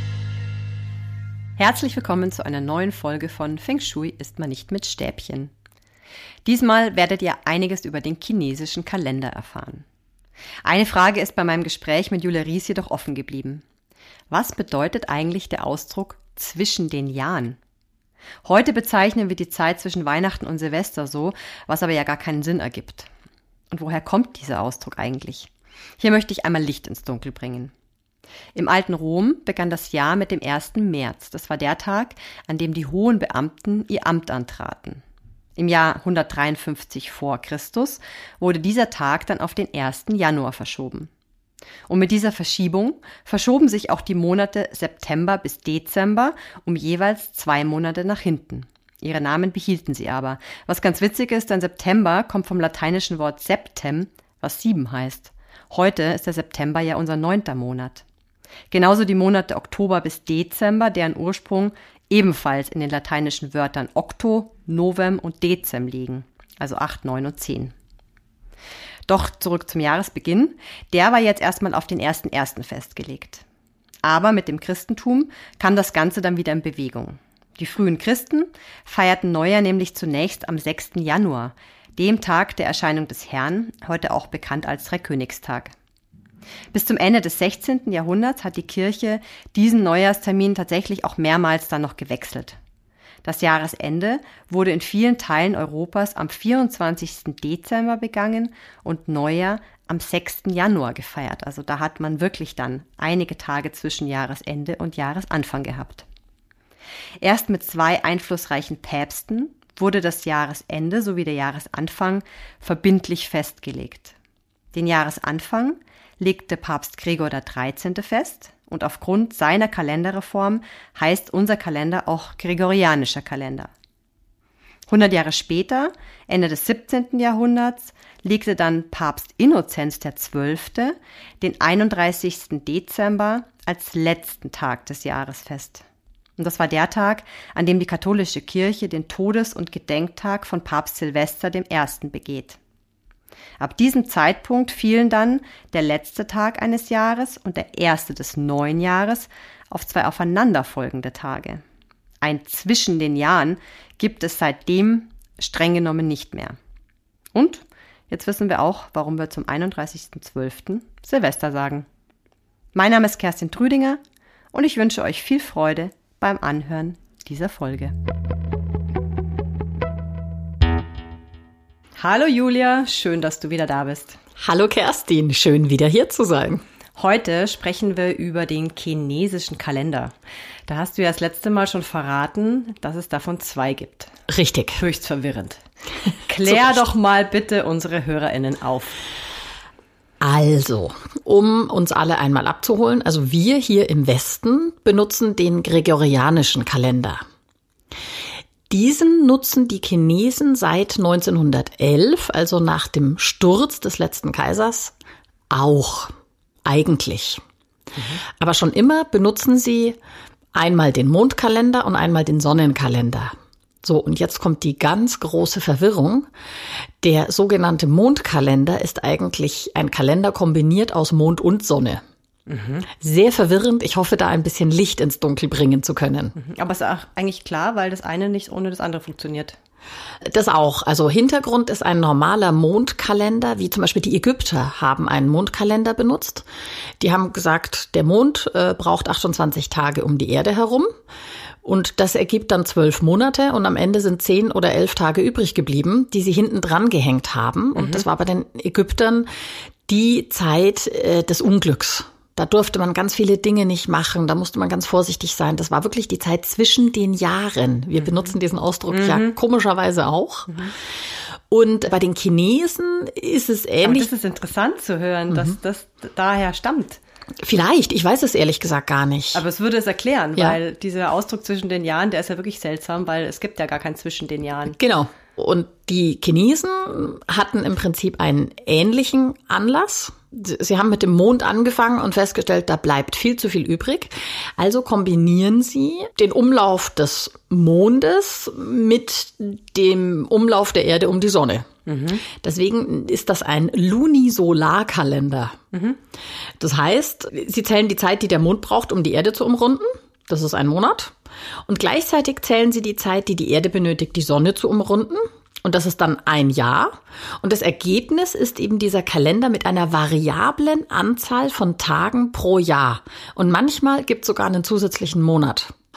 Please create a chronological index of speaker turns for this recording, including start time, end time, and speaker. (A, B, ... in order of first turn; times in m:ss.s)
0:01.6-0:05.5 A
0:06.4-0:09.8 A
0:10.6-0:13.6 A
0:14.3-0:17.6 A
0:18.4-0:23.1 A
0:23.7-0:27.7 A
0:28.5-0:35.0 A
0:35.6-0:41.1 A
0:41.9-0:58.0 A
0:58.7-1:07.7 A
1:09.1-1:13.4 A
1:14.0-1:25.7 A
1:26.7-1:32.6 A
1:33.2-1:46.0 A
1:47.2-1:54.1 A
1:54.7-2:03.7 A
2:04.9-2:15.8 A
2:16.4-2:22.6 A
2:23.6-2:31.6 A
2:32.2-2:36.6 A
2:37.3-2:41.9 A
2:42.7-2:44.0 A
2:44.5-2:47.9 A
2:52.0-2:54.2 A
2:54.4-2:56.6 B
2:57.0-3:00.1 A
3:00.7-3:04.1 A
3:04.3-3:04.8 B
3:04.8-3:05.6 A
3:06.3-3:09.0 A
3:06.5-3:06.8 B
3:10.2-3:17.2 B
3:18.7-3:24.9 B
3:25.5-3:26.1 B
3:26.6-3:27.4 B
3:28.4-3:30.0 B
3:30.5-3:36.3 B
3:37.0-3:42.0 B
3:42.5-3:42.9 A
3:42.9-3:46.3 B
3:46.4-3:49.6 A
3:50.2-3:56.4 B
3:57.0-4:00.9 B
4:01.6-4:09.3 B
4:07.8-4:08.0 A
4:09.9-4:20.6 B
4:18.0-4:18.3 A
4:18.9-4:19.3 A
4:21.5-4:24.1 B
4:23.8-4:27.0 A
4:27.4-4:29.4 B
4:29.3-4:34.8 A
4:34.8-4:51.7 B
4:51.8-4:52.2 A
4:52.2-4:55.6 B
4:55.7-4:56.0 A
4:56.6-5:01.1 B
5:01.7-5:15.7 B